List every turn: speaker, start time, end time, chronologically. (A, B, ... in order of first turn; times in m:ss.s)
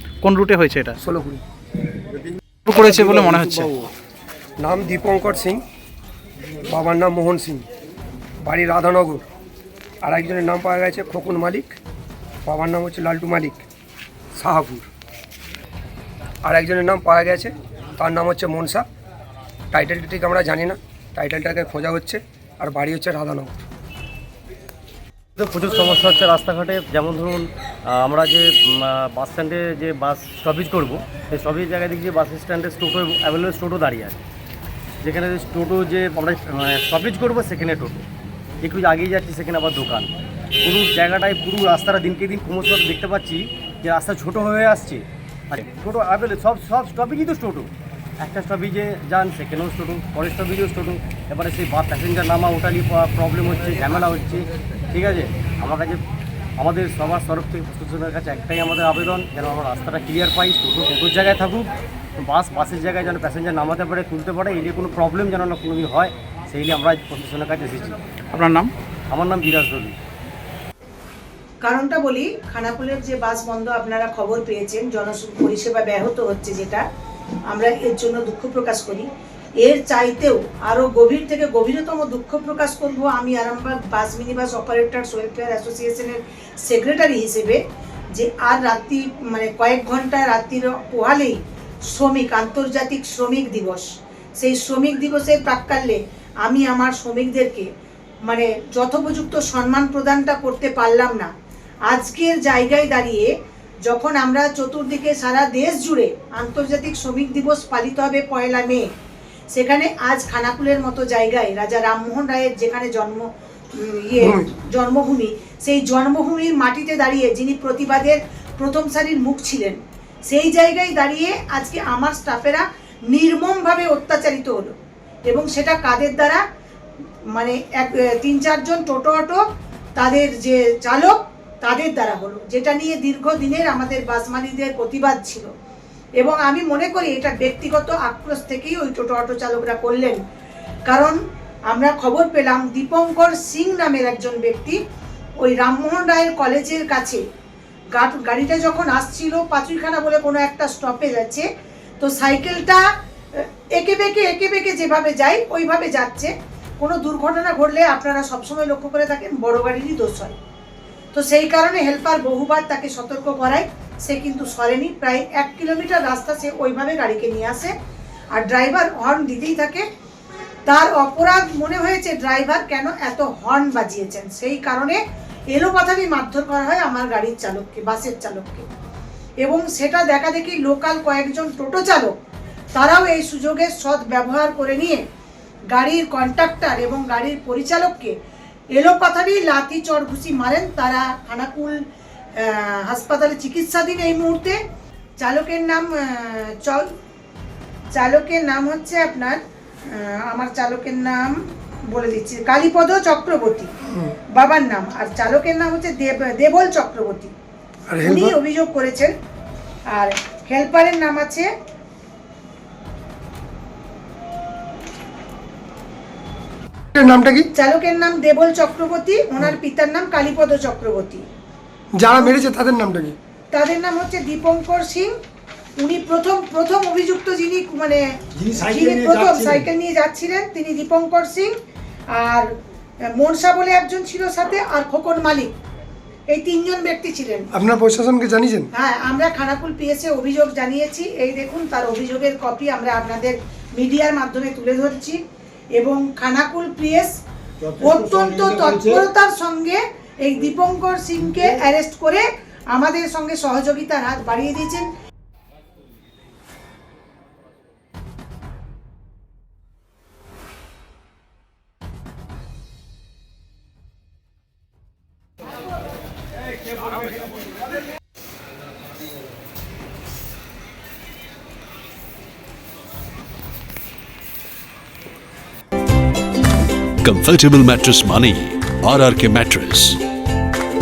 0:00.2-0:01.0 A
0:01.0-0:01.4 B
0:02.6-0:03.8 A
0:04.6-0:05.6 B
0:06.6-0:07.6 B
0:08.4-0:09.2 B
0:10.0-0:11.8 B
0:12.4-0:13.6 B
0:14.3-0:14.9 B
0:16.4-0:18.8 B
0:19.7-0:23.5 B
0:25.4-0:27.4 C
0:28.0-0:34.2 C
0:35.0-0:38.0 C
0:38.6-0:40.1 C
0:40.6-0:47.7 C
0:48.2-0:56.0 C
0:56.6-1:01.7 C
1:02.2-1:07.9 C
1:08.3-1:08.7 A
1:09.1-1:09.9 C
1:11.6-1:16.8 D
1:17.5-1:19.1 D
1:19.6-1:27.6 D
1:28.1-1:33.8 D
1:34.4-1:37.7 D
1:38.3-1:41.3 D
1:41.9-1:43.3 D
1:43.8-1:48.8 D
1:49.5-2:04.7 D
2:05.3-2:06.4 D
2:07.3-2:09.4 D
2:10.0-2:15.5 D
2:16.2-2:20.2 D
2:20.9-2:24.8 D
2:25.4-2:27.2 D
2:27.9-2:31.5 D
2:32.0-2:40.3 D
2:41.1-2:47.7 D
2:48.4-2:49.8 D
2:50.6-2:55.0 D
2:55.5-2:58.6 D
2:59.4-3:02.1 D
3:02.7-3:05.0 D
3:05.7-3:08.2 D
3:08.7-3:11.8 D
3:12.4-3:14.6 D
3:15.2-3:16.9 D
3:17.9-3:23.7 D
3:24.3-3:27.3 D
3:27.9-3:28.4 E
3:28.0-3:29.1 D
3:29.9-3:31.5 D
3:36.9-3:37.5 E
3:37.5-3:41.2 D
3:41.9-3:43.2 E
3:43.5-3:45.1 D
3:45.8-3:51.5 D
3:48.4-3:49.6 E
3:52.1-3:52.5 D
3:53.1-3:55.5 D
3:56.3-3:57.5 D
3:57.5-3:58.7 E
3:58.7-4:05.2 D
4:05.8-4:07.1 D
4:07.8-4:14.9 D
4:08.4-4:08.9 E
4:37.0-4:40.0 F